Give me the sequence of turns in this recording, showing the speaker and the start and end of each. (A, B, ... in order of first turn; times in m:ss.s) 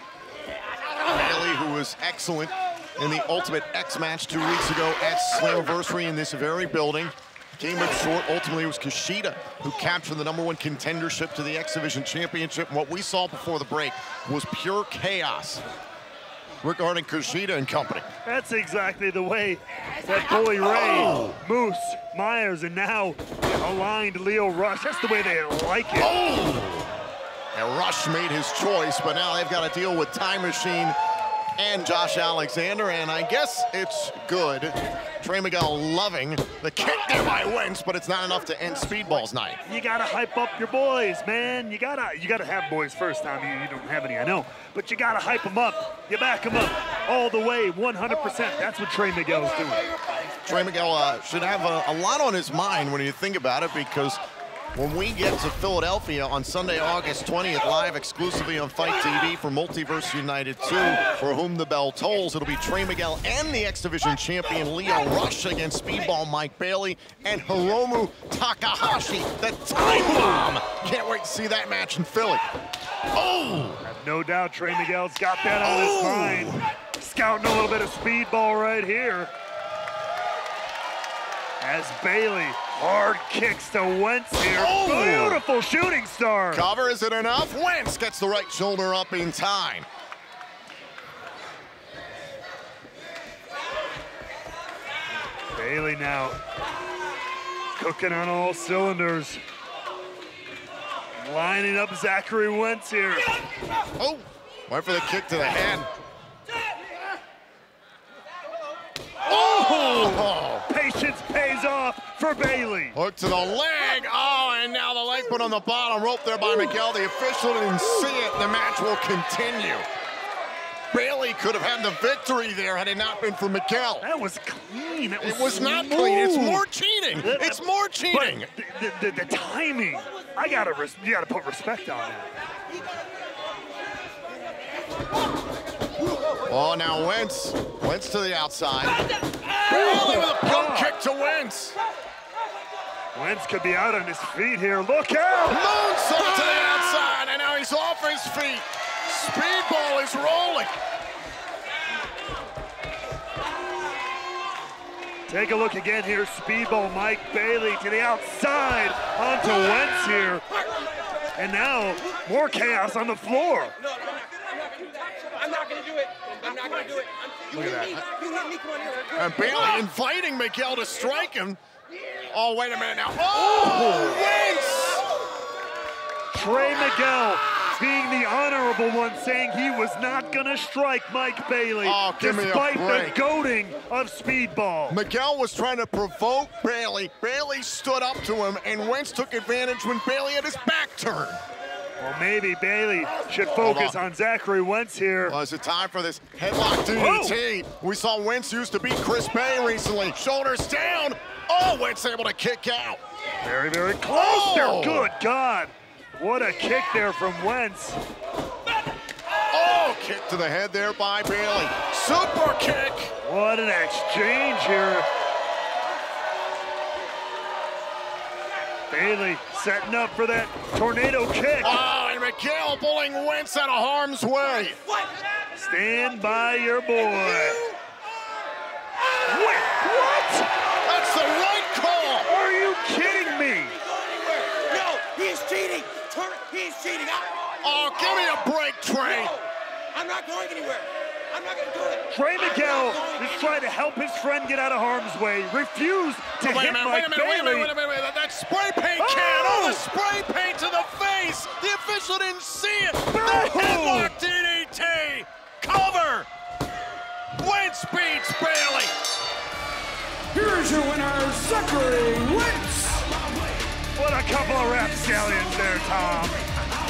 0:01.0-0:15.6 A
0:16.6-0:18.1 A
0:18.2-0:26.1 B
0:20.7-0:21.4 A
0:26.0-0:26.9 A
0:27.5-0:31.0 A
0:31.6-0:39.6 A
0:39.6-0:49.8 B
0:50.4-0:54.2 A
0:54.7-1:12.4 A
1:13.1-1:13.8 A
1:13.8-1:19.3 B
1:15.6-1:16.6 A
1:21.6-1:26.6 B
1:24.5-1:25.4 A
1:26.5-1:29.9 A
1:35.5-1:36.4 B
1:37.7-1:39.4 B
1:41.2-1:43.3 B
1:44.0-1:45.9 A
1:49.3-1:50.6 A
1:49.3-1:53.0 B
1:52.9-1:59.8 A
2:00.9-2:04.0 A
2:04.0-2:06.6 B
2:05.2-2:08.5 A
2:07.2-2:12.3 B
2:16.4-2:19.0 A
2:19.6-2:20.9 B
2:19.6-2:21.8 A
2:23.1-2:25.6 B
2:25.5-2:30.8 A
2:35.3-2:40.4 B
2:41.4-2:43.8 B
2:47.5-2:48.0 B
2:49.1-2:51.6 A
2:52.3-2:55.0 A
2:53.8-2:54.2 B
2:56.3-3:05.0 B
3:01.8-3:03.2 A
3:04.9-3:11.4 A
3:12.0-3:15.4 B
3:13.6-3:14.0 A
3:15.3-3:23.0 A
3:16.9-3:17.4 B
3:23.4-3:28.0 B
3:24.1-3:25.1 A
3:29.5-3:33.1 A
3:33.2-3:35.0 B
3:38.9-3:41.8 B
3:41.6-3:44.8 A
3:45.5-3:47.7 B
3:49.3-3:50.5 B
3:50.8-3:52.3 A
3:52.2-3:53.8 B
3:54.9-3:57.3 C
3:57.6-3:59.4 A
4:00.0-4:00.8 C
4:02.1-4:07.7 B
4:06.4-4:16.3 A
4:09.0-4:09.8 B
4:13.1-4:14.1 B
4:17.3-4:18.9 A
4:20.3-4:23.1 D
4:24.0-4:26.4 B